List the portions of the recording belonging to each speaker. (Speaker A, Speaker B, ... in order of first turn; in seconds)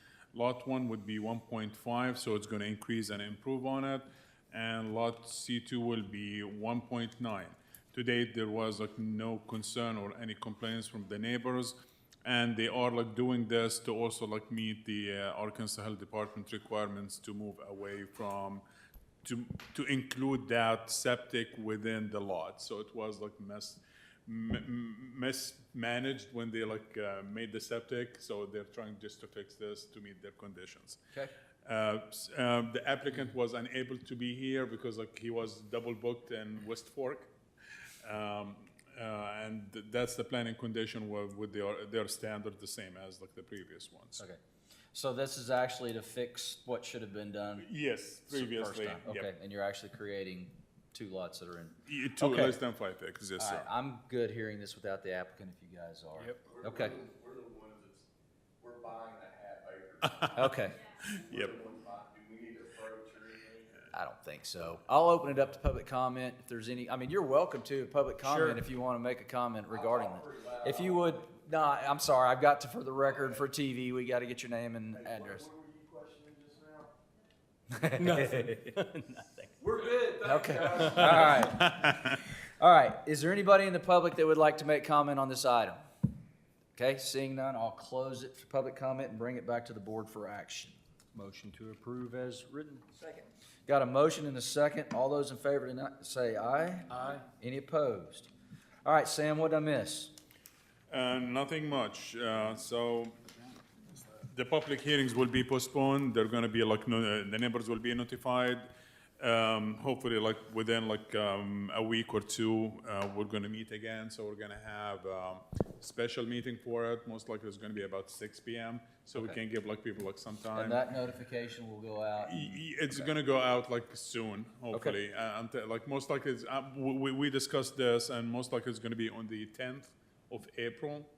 Speaker A: 0.3-18.6, 19.2-31.0, 31.6-37.3, 38.0-44.2, 47.6-49.3, 51.9-53.7, 60.0-60.5, 61.0-61.5, 81.1-82.2, 100.9-103.2, 104.1-120.8, 122.2-131.1
Speaker B: 44.9-47.7, 48.2-52.6, 53.4-57.0, 60.3-60.8, 63.9-75.5, 77.7-79.4, 80.1-82.0, 82.6-85.8, 86.8-90.8, 93.7-98.3, 98.8-100.1, 120.5-123.1, 124.7-125.0
Speaker C: 56.2-56.4, 68.2-68.6, 77.9-79.5, 80.7-81.6, 91.1-93.1, 96.9-97.2
Speaker D: 56.4-58.0, 58.6-60.5, 61.1-63.9, 69.7-71.2, 74.9-76.9, 79.6-81.0